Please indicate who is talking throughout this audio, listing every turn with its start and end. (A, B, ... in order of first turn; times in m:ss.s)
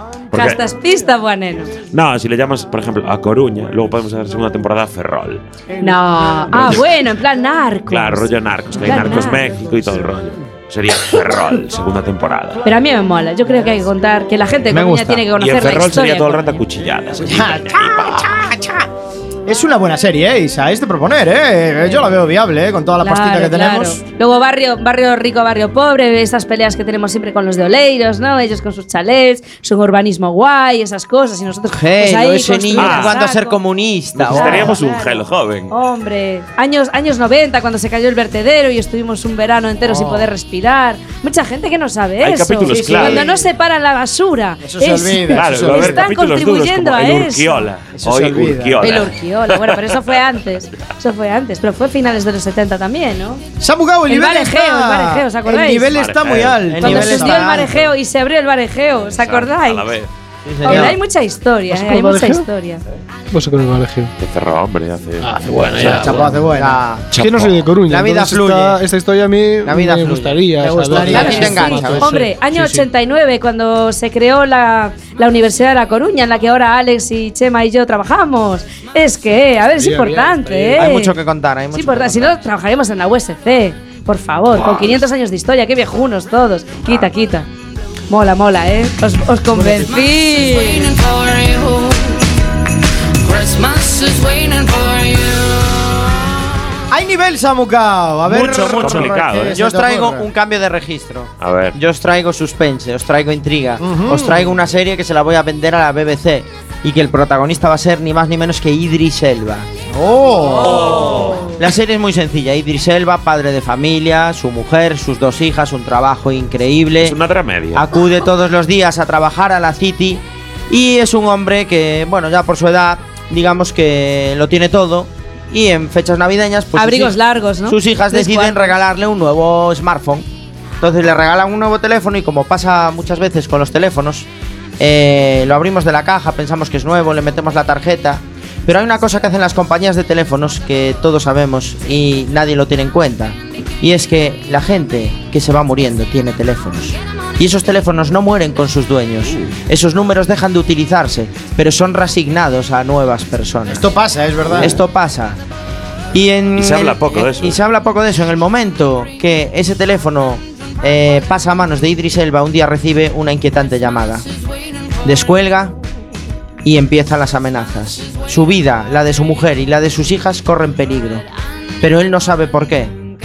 0:00.3-0:00.6 A
0:00.3-0:01.8 B
0:01.8-0:05.4 A
0:05.8-0:09.4 B
0:06.5-0:06.9 A
0:07.9-0:12.6 A
0:12.6-0:16.5 B
0:14.7-0:15.2 C
0:15.4-0:18.3 A
0:17.2-0:18.8 D
0:19.4-0:24.0 D
0:23.0-0:33.6 B
0:31.7-0:34.8 C
0:32.8-0:33.1 A
0:34.2-0:35.7 A
0:34.3-0:47.7 B
0:39.9-0:40.3 D
0:42.2-0:43.3 A
0:42.6-0:43.5 D
0:44.6-0:46.1 D
0:45.3-0:50.8 A
0:47.9-0:48.8 D
0:48.8-0:53.4 B
0:53.6-0:57.8 D
0:54.1-0:56.0 B
0:55.9-0:56.8 A
0:56.7-0:57.7 C
0:56.7-0:59.9 B
0:59.0-1:00.1 A
1:00.4-1:01.0 C
1:00.6-1:02.8 B
1:01.7-1:02.5 E
1:03.3-1:04.1 E
1:04.2-1:06.3 A
1:05.2-1:06.3 E
1:05.8-1:06.8 D
1:06.5-1:07.1 C
1:07.1-1:07.6 A
1:07.1-1:12.8 E
1:07.9-1:08.8 C
1:09.6-1:12.1 C
1:10.6-1:11.9 D
1:11.1-1:21.2 B
1:19.7-1:20.8 E
1:20.8-1:22.4 C
1:21.7-1:27.5 B
1:28.1-1:30.9 B
1:29.6-1:32.3 F
1:33.2-1:36.0 F
1:36.9-1:40.3 D
1:38.3-1:49.7 C
1:38.4-1:39.6 A
1:41.4-1:41.8 A
1:43.8-1:44.6 D
1:49.9-1:51.2 D
1:51.4-1:57.2 C
1:57.0-1:57.8 A
1:57.7-2:10.2 C
2:06.7-2:08.8 B
2:10.8-2:14.3 C
2:14.8-2:33.9 C
2:33.7-2:34.8 D
2:34.5-2:35.4 C
2:36.1-2:44.2 C
2:36.6-2:37.6 A
2:45.0-2:45.8 C
2:46.6-2:51.2 C
2:51.8-2:52.9 C